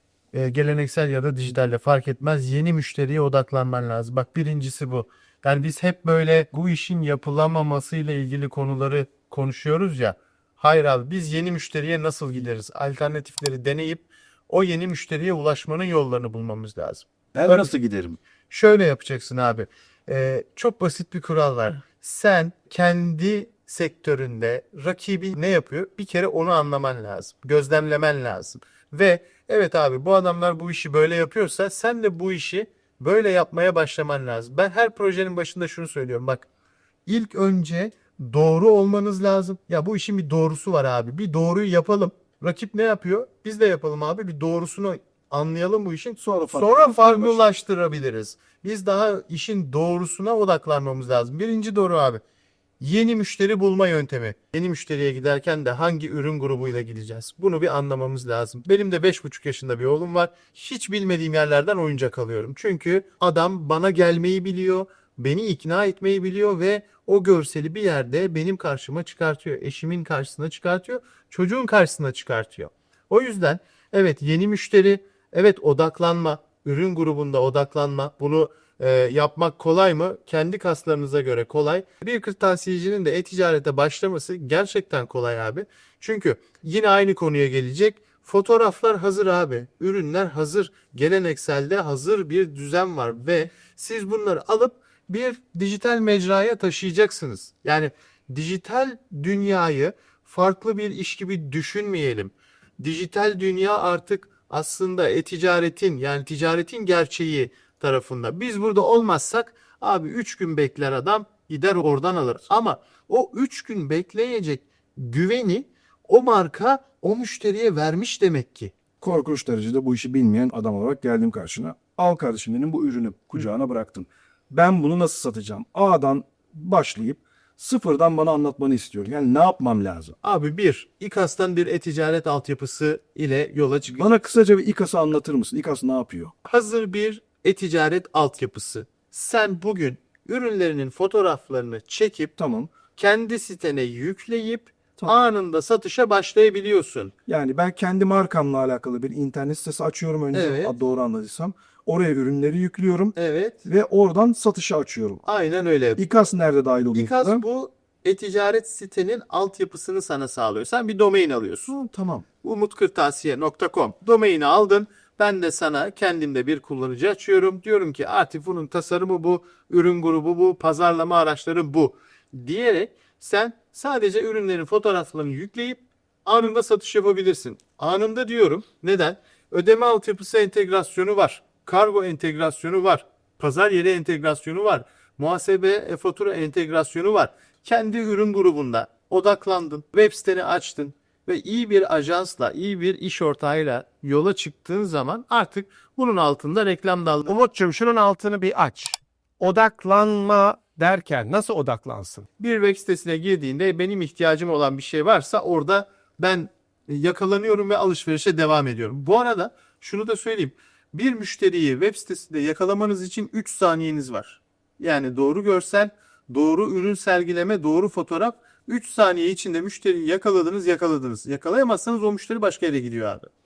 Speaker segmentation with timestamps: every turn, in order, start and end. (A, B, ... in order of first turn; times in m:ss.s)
0:00.3-0:17.7 A
0:17.3-0:18.2 B
0:18.5-0:36.5 A
0:37.0-0:52.2 A
0:46.2-0:47.4 B
0:52.8-1:58.7 A
1:59.0-2:10.2 B
2:10.2-2:14.1 A
2:14.0-2:16.3 B
2:16.4-2:22.3 A
2:22.4-2:22.7 B
2:22.9-2:27.1 A
2:27.3-2:35.2 B
2:30.3-2:30.7 A
2:33.1-2:33.6 A
2:35.2-2:36.0 A
2:36.0-2:37.4 B
2:36.9-2:41.7 A
2:41.7-2:42.2 B
2:42.4-3:17.3 A
3:17.2-3:22.2 C
3:22.4-3:43.3 A